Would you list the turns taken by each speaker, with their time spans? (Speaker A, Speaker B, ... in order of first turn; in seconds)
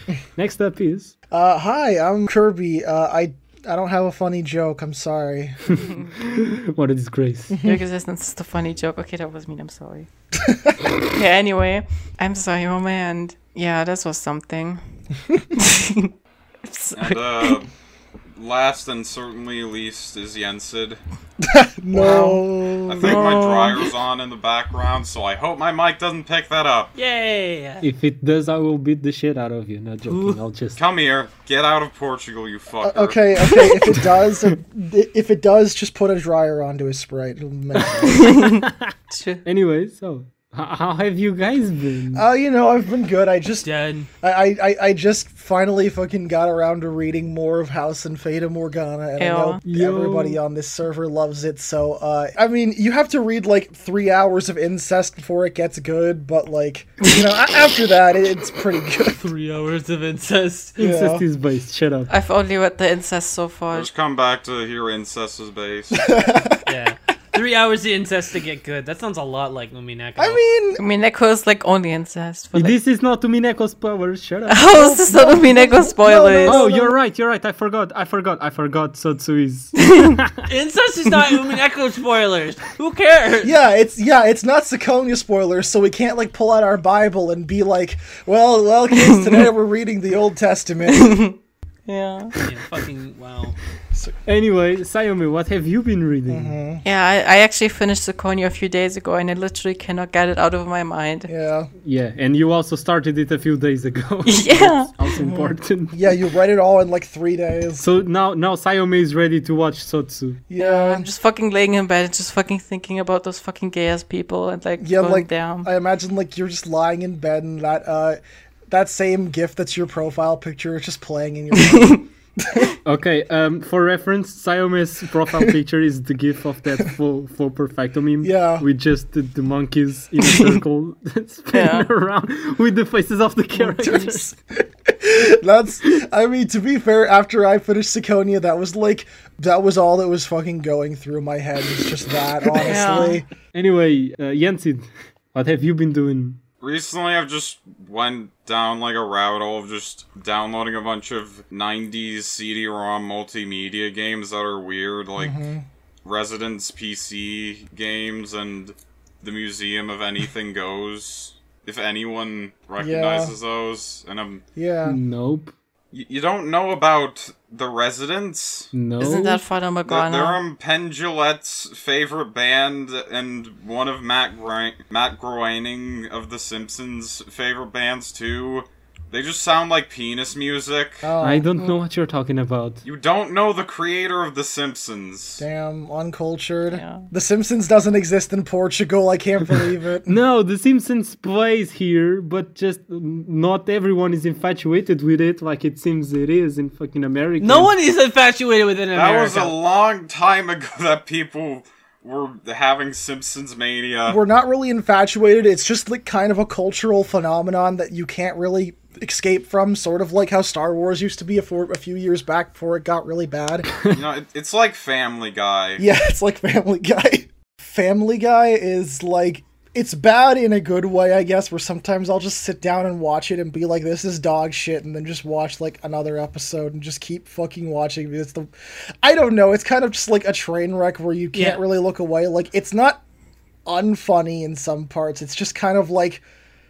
Speaker A: 0.4-1.1, 5.7-7.7, 27.8-30.8, 37.8-38.9, 39.5-42.2, 49.6-50.4, 60.8-62.1, 72.5-75.1, 76.5-80.5, 94.3-96.6, 101.8-106.0, 107.8-110.4, 122.8-134.3, 143.5-146.4, 164.8-165.5, 168.7-169.4, 181.2-182.8, 190.1-197.7
Speaker B: 1.3-5.7, 7.5-7.8, 10.4-10.8, 21.4-23.2, 32.8-38.3, 42.1-43.7, 44.2-59.2, 60.8-61.2, 66.0-66.7, 70.2-70.8, 74.8-77.0, 83.4-91.2, 96.3-96.8, 101.3-101.7, 105.2-107.9, 110.5-111.1, 114.8-118.2, 118.7-122.7, 128.2-128.7, 133.6-134.3, 134.9-143.3, 155.2-155.7, 162.8-163.3, 164.6-165.0, 181.0-181.5, 185.4-190.1, 204.1-213.7, 215.8-228.5, 229.0-233.0, 233.7-236.2
Speaker C: 7.6-10.1, 11.1-14.8, 15.5-16.1, 16.6-17.6, 21.9-22.4, 23.0-23.9, 38.1-39.4, 49.2-49.6, 62.1-63.9, 70.8-72.8, 74.5-76.7, 90.9-91.3, 91.9-92.3, 96.8-101.3, 104.2-104.9, 110.6-115.7, 121.6-122.0, 131.5-131.9, 142.5-143.2, 169.0-170.4, 186.7-187.1
Speaker D: 16.9-17.7, 18.4-21.0, 22.9-26.9, 30.8-33.2, 63.7-66.1, 146.6-155.4, 156.1-164.4, 165.9-168.7, 169.9-181.1, 182.8-185.4, 198.9-204.2, 213.9-215.8
Speaker E: 27.0-27.9, 30.1-30.4, 43.6-44.1, 59.1-60.8, 66.7-70.4, 80.5-83.5, 92.4-93.6, 197.4-199.5, 231.3-231.6